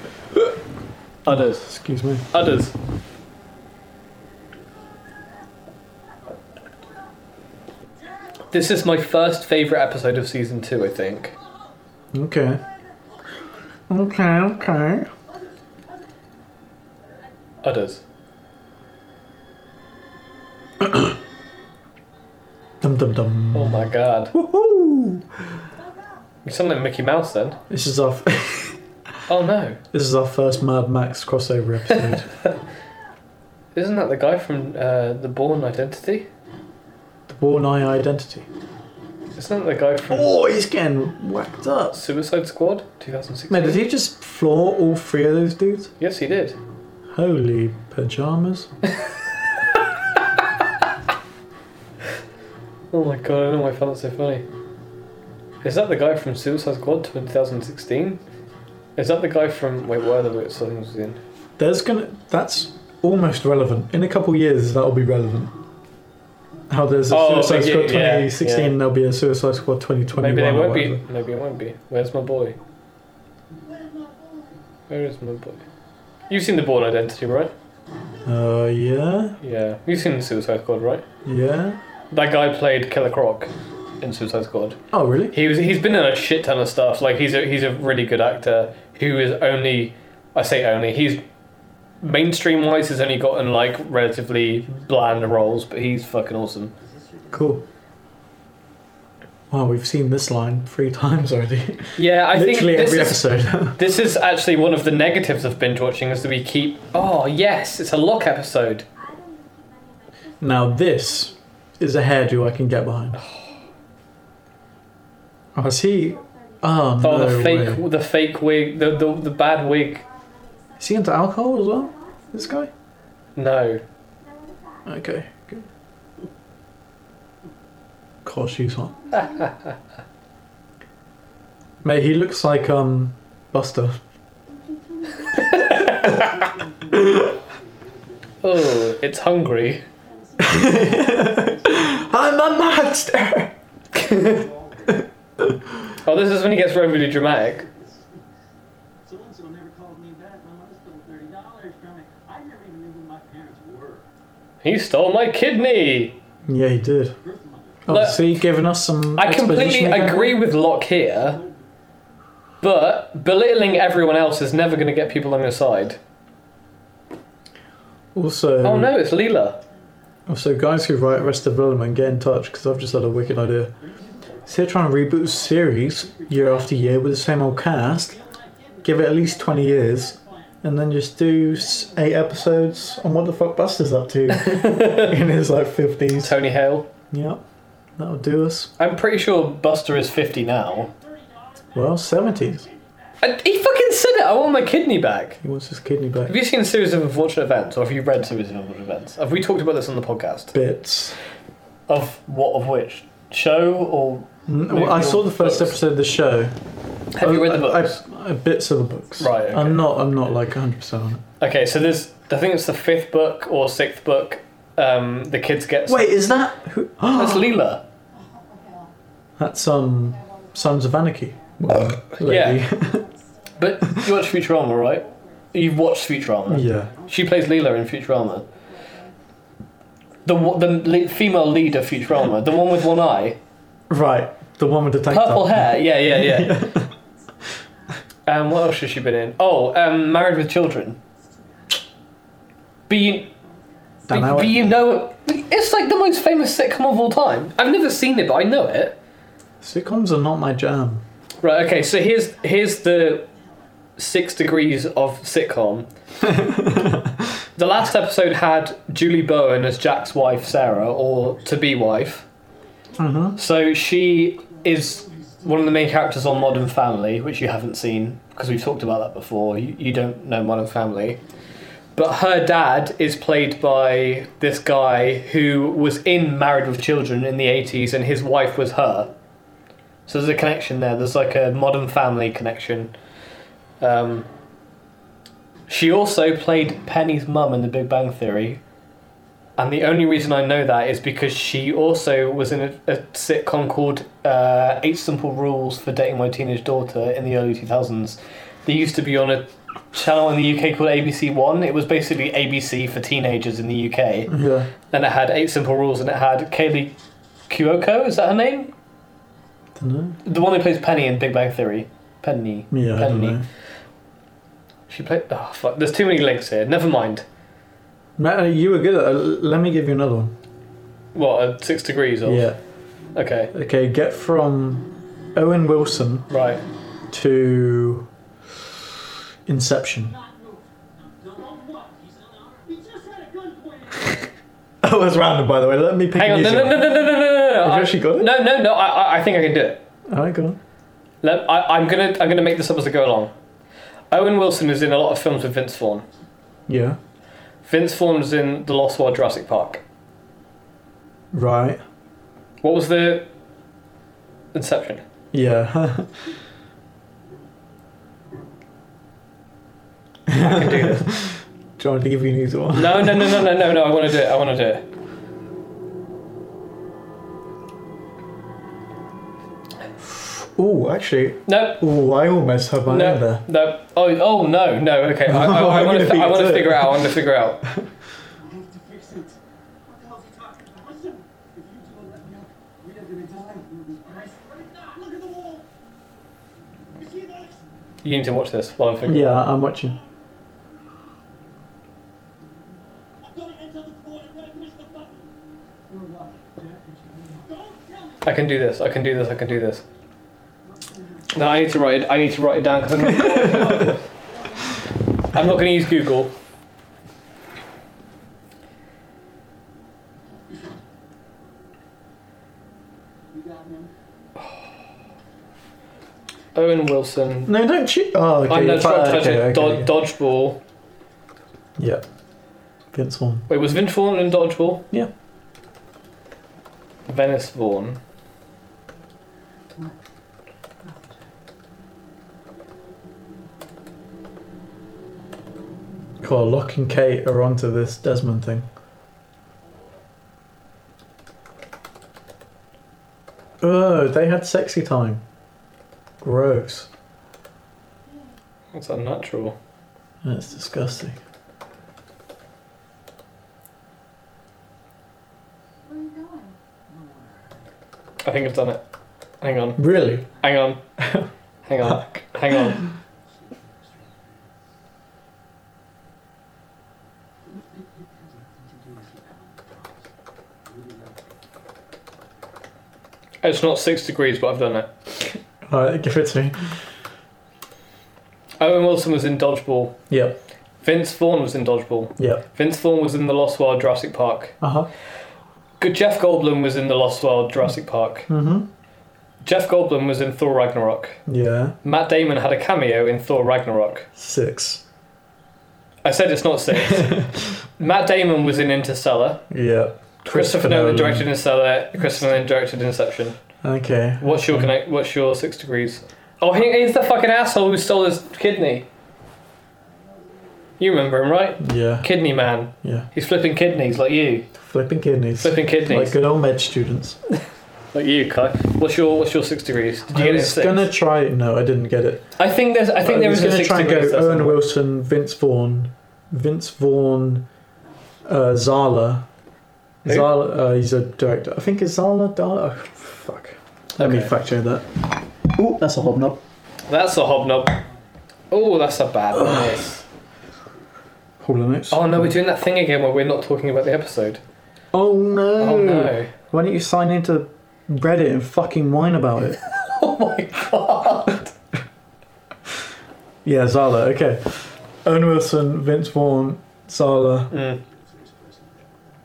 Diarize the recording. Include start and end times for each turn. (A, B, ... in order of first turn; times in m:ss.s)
0:01.2-0:01.6 A
0:01.3-0:02.3 B
0:02.3-0:02.7 A
0:08.5-0:11.3 A
0:12.1-0:12.6 B
0:13.9-0:15.1 B
0:17.6-0:18.0 A
0:20.8-0:21.2 B
0:22.8-0:25.5 B
0:23.5-0:24.3 A
0:26.4-0:27.6 A
0:27.7-0:28.8 B
0:29.3-0:29.8 A
0:29.9-0:32.3 B
0:33.7-0:36.3 A
0:37.3-0:38.4 B
0:39.4-0:40.3 A
0:40.1-0:42.0 B
0:41.9-0:43.8 A
0:43.5-0:45.9 B
0:46.0-0:46.6 A
0:47.1-0:48.7 B
0:52.9-0:54.4 A
0:55.6-0:58.2 A
0:59.0-1:01.2 A
1:01.6-1:05.5 B
1:06.7-1:11.0 B
1:07.1-1:08.8 A
1:10.2-1:12.6 A
1:13.6-1:14.6 C
1:14.9-1:15.6 A
1:16.3-1:17.5 A
1:18.2-1:19.4 B
1:19.4-1:21.0 A
1:21.2-1:21.8 B
1:22.1-1:24.8 A
1:24.9-1:25.4 B
1:25.3-1:31.2 A
1:32.0-1:36.7 A
1:36.8-1:37.6 C
1:37.3-1:37.6 B
1:39.5-1:43.8 B
1:42.0-1:48.8 A
1:49.0-1:51.4 D
1:50.4-1:53.2 B
1:53.2-1:53.9 D
1:55.5-1:57.8 B
1:55.8-1:56.9 D
1:57.0-2:00.0 A
1:58.8-2:02.7 D
2:00.8-2:02.7 B
2:03.4-2:03.8 A
2:04.2-2:05.1 D
2:04.8-2:05.6 B
2:08.2-2:08.9 B
2:08.8-2:09.8 D
2:11.8-2:14.0 B
2:14.5-2:16.2 D
2:15.3-2:16.5 A
2:16.1-2:18.4 C
2:16.9-2:17.3 B
2:18.4-2:19.8 A
2:20.0-2:21.8 D
2:20.4-2:23.5 B
2:21.3-2:22.3 C
2:23.9-2:24.4 A
2:24.1-2:25.0 C
2:26.0-2:27.7 A
2:27.7-2:28.0 C
2:29.0-2:34.1 C
2:34.6-2:36.2 A
2:36.4-2:37.2 B
2:37.2-2:37.8 C
2:37.8-2:40.4 B
2:37.9-2:38.2 A
2:39.2-2:41.4 A
2:41.2-2:41.7 C
2:42.6-2:46.0 A
2:48.1-2:48.9 B
2:48.6-2:49.6 A
2:50.3-2:53.7 B
2:54.0-2:54.3 C
2:54.4-2:58.2 B
2:55.8-2:56.6 C
2:57.9-3:00.3 C
2:58.8-3:06.4 B
3:04.3-3:05.2 A
3:06.2-3:06.9 A
3:07.1-3:07.4 B
3:08.0-3:08.7 B
3:08.8-3:10.9 A
3:11.3-3:11.8 C
3:11.7-3:12.7 B
3:13.2-3:15.4 A
3:15.4-3:16.3 B
3:16.3-3:20.5 A
3:20.5-3:21.2 B
3:21.9-3:25.8 A
3:24.5-3:26.6 B
3:27.1-3:28.0 A
3:27.2-3:31.2 B
3:29.2-3:29.8 A
3:31.4-3:36.2 A
3:35.9-3:37.5 B
3:37.1-3:37.8 A
3:38.2-3:38.9 D
3:39.4-3:43.0 B
3:39.8-3:41.5 D
3:42.2-3:42.6 A
3:42.4-3:45.4 D
3:43.6-3:48.4 A
3:46.5-3:46.9 B
3:48.7-3:49.1 D
3:50.2-3:53.4 A
3:53.9-3:56.9 B
3:55.1-3:56.6 A
3:58.2-4:01.0 A
4:02.9-4:03.3 A
4:03.5-4:03.7 D
4:04.1-4:04.6 B
4:04.1-4:09.0 A
4:09.6-4:11.0 B
4:11.4-4:13.3 A
4:14.0-4:15.9 A
4:16.2-4:17.4 B
4:17.6-4:22.2 A
4:23.0-4:23.4 B
4:23.4-4:31.2 A
4:31.9-4:39.1 A
4:40.1-4:42.9 A
4:43.8-4:44.3 A
4:45.7-4:48.6 A
4:49.6-5:04.3 A
5:04.3-5:04.7 B
5:04.9-5:06.9 A
5:07.5-5:08.7 A
5:09.8-5:10.2 B
5:10.2-5:13.4 A
5:12.7-5:13.4 B
5:14.9-5:17.2 A
5:18.2-5:20.3 B
5:21.1-5:22.5 A
5:22.2-5:22.6 B
5:23.1-5:23.5 A
5:23.5-5:26.3 B
5:26.3-5:26.6 A
5:27.1-5:28.1 B
5:29.4-5:30.1 B
5:30.1-5:34.3 C
5:34.8-5:36.9 B
5:36.1-5:39.8 A
5:37.6-5:38.3 B
5:40.1-5:40.6 B
5:41.2-5:43.3 A
5:44.1-5:46.0 A
5:46.7-5:47.0 B
5:47.6-5:49.8 A
5:51.3-5:51.8 B
5:52.6-5:53.3 A
5:54.5-5:55.0 A
5:55.3-5:56.2 B
6:00.3-6:03.5 B
6:00.4-6:01.1 A
6:02.7-6:04.8 A
6:10.2-6:13.4 B
6:11.4-6:11.8 A
6:12.9-6:17.6 A
6:15.2-6:17.9 B
6:18.4-6:25.6 C
6:27.0-6:27.6 C
6:28.0-6:29.4 A
6:29.0-6:30.0 B
6:33.2-6:35.2 C
6:35.9-6:38.2 C
6:38.2-6:39.8 A
6:41.3-6:44.0 A
6:43.0-6:43.9 B
6:45.3-6:46.3 A
6:53.3-6:53.9 C
6:56.5-6:57.5 A
6:57.4-6:59.9 B
6:58.5-7:00.6 A
7:01.8-7:02.0 B
7:02.9-7:03.4 B
7:03.5-7:04.9 A
7:07.1-7:08.0 A
7:16.2-7:18.7 B
7:23.6-7:25.2 B
7:26.2-7:26.9 B
7:28.7-7:29.6 A
7:30.2-7:31.2 B
7:35.8-7:36.6 D
7:36.9-7:37.6 C
7:38.2-7:38.8 A
7:39.4-7:40.8 A
7:39.8-7:40.3 B
7:41.0-7:41.3 B
7:41.7-7:42.9 A
7:41.8-7:42.8 B
7:43.5-7:44.4 C
7:47.5-7:49.9 C
7:50.6-7:51.2 C
7:53.4-7:54.9 A
7:55.6-7:56.7 B
7:58.6-8:00.0 A
8:00.1-8:00.4 B
8:00.8-8:04.6 A
8:02.2-8:02.4 B
8:04.6-8:04.9 B
8:05.8-8:08.3 A
8:08.3-8:08.7 B
8:09.4-8:11.2 A
8:11.3-8:11.7 B
8:11.8-8:14.1 A
8:14.2-8:14.8 B
8:16.0-8:19.4 A
8:16.8-8:17.4 B
8:19.5-8:21.3 B
8:20.3-8:23.4 A
8:23.6-8:24.7 B
8:24.2-8:28.9 A
8:30.1-8:30.4 C
8:30.8-8:34.5 A
8:31.6-8:32.1 B
8:32.8-8:33.1 B
8:34.6-8:37.2 B
8:35.4-8:36.2 A
8:37.9-8:40.9 A
8:40.1-8:42.3 B
8:42.4-8:44.6 A
8:43.0-8:47.5 B
8:48.2-8:49.2 B
8:50.0-8:56.4 B
8:54.0-8:54.3 A
8:56.9-8:57.8 A
8:58.5-9:00.0 A
8:59.3-8:59.8 B
9:01.4-9:02.3 B
9:01.9-9:04.4 A
9:04.9-9:09.6 B
9:05.6-9:06.3 A
9:09.6-9:11.5 A
9:13.4-9:17.5 B
9:17.5-9:17.8 A
9:17.8-9:18.9 C